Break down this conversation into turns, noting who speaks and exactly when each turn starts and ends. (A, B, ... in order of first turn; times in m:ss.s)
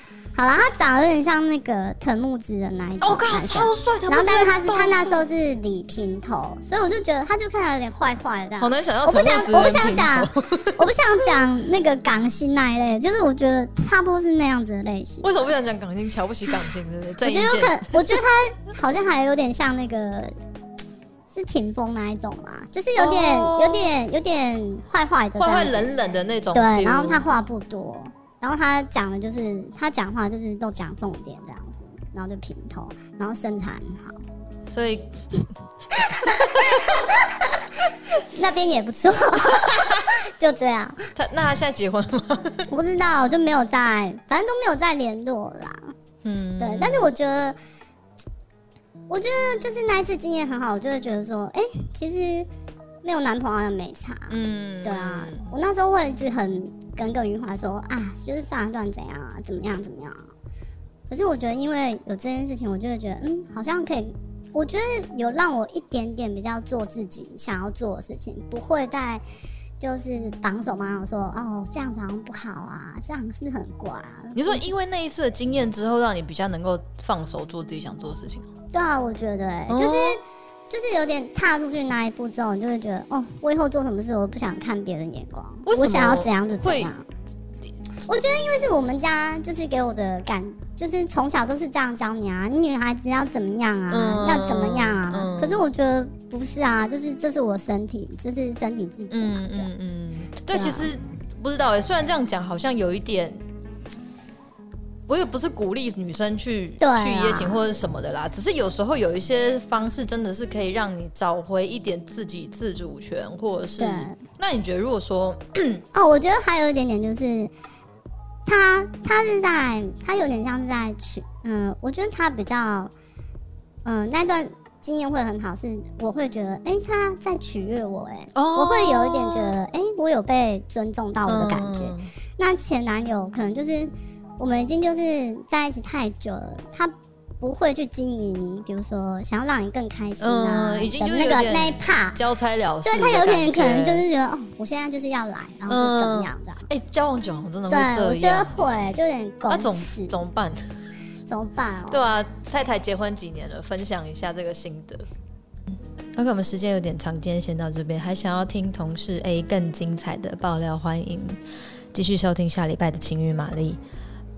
0:00.4-0:15.3 A
0:03.0-0:05.2 B
0:08.6-0:10.8 B
0:15.2-0:18.2 B
0:17.2-0:20.3 A
0:21.3-0:26.0 A
0:23.0-0:23.9 B
0:25.4-0:27.3 B
0:26.5-0:34.2 A
0:34.7-0:35.2 B
0:35.9-0:37.7 A
0:36.3-0:36.8 B
0:38.2-0:41.0 A
0:41.2-0:42.7 B
0:42.7-0:45.9 A
0:46.2-0:47.1 B
0:46.6-0:47.6 A
0:49.1-0:52.5 A
0:53.0-0:54.3 A
0:54.3-0:55.5 B
0:54.8-1:00.2 A
1:01.1-1:09.2 A
1:09.8-1:14.6 A
1:14.4-1:18.5 B
1:18.7-1:27.0 A
1:19.7-1:20.2 B
1:25.7-1:26.9 B
1:28.0-1:39.7 A
1:33.9-1:35.6 B
1:39.1-1:43.4 B
1:40.5-1:40.9 A
1:45.1-1:55.8 B
1:46.8-1:47.7 A
1:53.8-1:54.2 A
1:55.9-1:57.5 A
1:58.5-2:02.9 A
2:03.8-2:22.2 A
2:08.4-2:09.6 B
2:11.3-2:12.1 B
2:20.2-2:24.0 B
2:22.8-2:26.7 A
2:25.7-2:29.0 B
2:27.7-2:30.2 A
2:29.5-2:30.7 B
2:31.3-2:32.0 A
2:31.9-2:35.1 B
2:36.2-2:41.4 B
2:41.9-2:43.8 B